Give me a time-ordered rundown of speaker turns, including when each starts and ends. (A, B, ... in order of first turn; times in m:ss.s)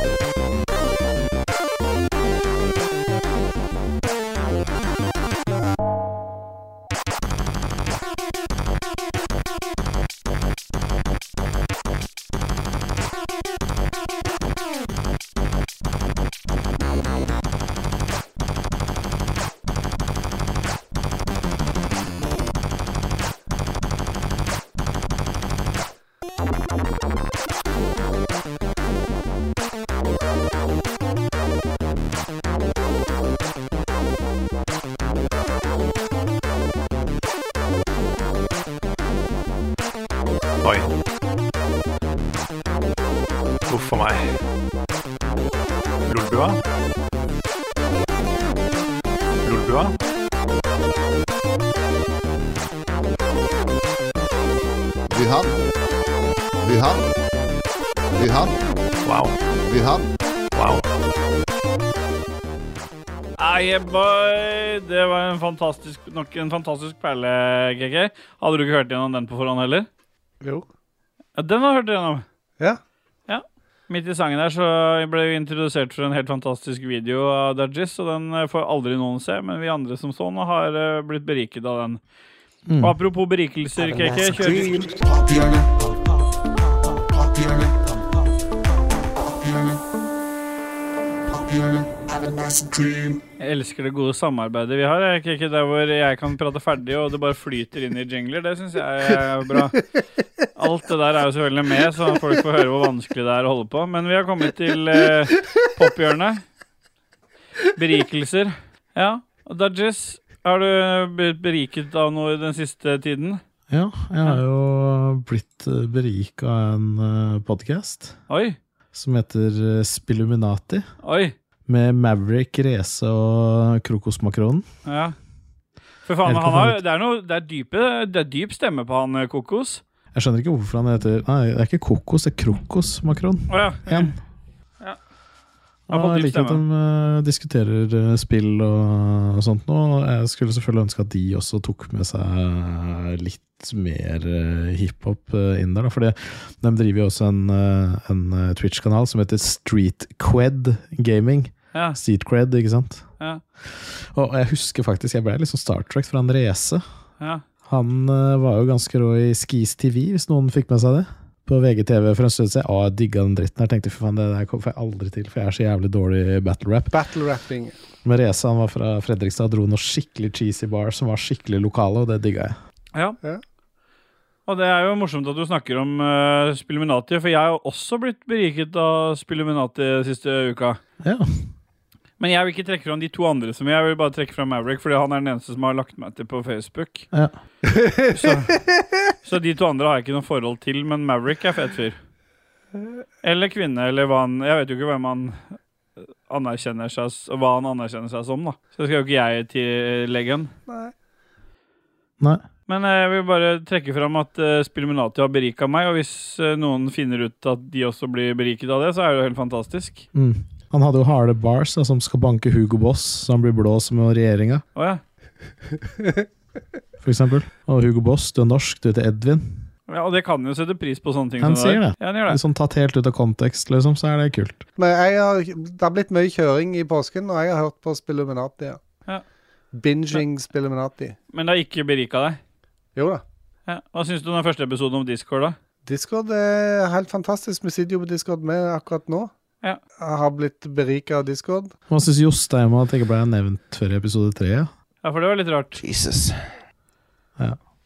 0:40.6-0:40.9 A
0:43.7-0:44.2 A
0:46.1-0:46.6 A
0:49.4-0:50.0 A
0:55.1-0:55.5 B
0:56.6-0:57.1 B
0:58.1-0:58.6 B
0:59.0-0:59.3 A
0:59.6-1:00.1 B
1:00.5-1:00.8 A
1:03.4-1:09.9 C
1:11.4-1:12.2 C
1:13.3-1:22.0 C
1:22.7-1:22.9 D
1:22.8-1:25.0 C
1:33.4-1:39.8 C
1:40.6-1:46.4 C
1:47.8-1:53.4 C
1:53.7-1:58.2 D
1:58.3-1:58.6 C
1:58.9-2:00.8 D
2:01.0-2:01.3 C
2:01.7-2:04.6 D
2:04.8-2:05.1 C
2:06.0-2:09.8 C
2:06.2-2:06.8 D
2:10.1-2:14.1 D
2:13.5-2:14.1 C
2:15.9-2:16.6 C
2:15.9-2:33.0 D
2:33.6-2:36.8 D
2:37.6-2:46.9 D
2:46.9-2:47.8 E
2:48.0-2:52.6 D
2:54.5-3:00.8 C
3:01.0-3:01.5 D
3:02.2-3:07.1 C
3:07.7-3:08.3 E
3:08.1-3:08.6 C
3:09.2-3:12.0 C
3:13.2-3:15.4 C
3:16.3-3:20.5 C
3:20.7-3:20.9 E
3:22.2-3:22.4 D
3:22.7-3:30.0 C
3:30.1-3:34.6 D
3:34.7-3:35.0 C
3:37.0-3:39.7 D
3:39.9-3:42.4 C
3:41.4-3:44.6 D
3:44.8-3:48.8 E
3:49.7-3:51.2 E
3:51.3-3:52.4 C
3:53.0-3:53.2 E
3:53.7-3:55.6 C
3:55.8-3:59.3 E
4:00.0-4:01.7 E
4:01.9-4:04.7 D
4:05.0-4:05.8 C
4:05.8-4:06.6 B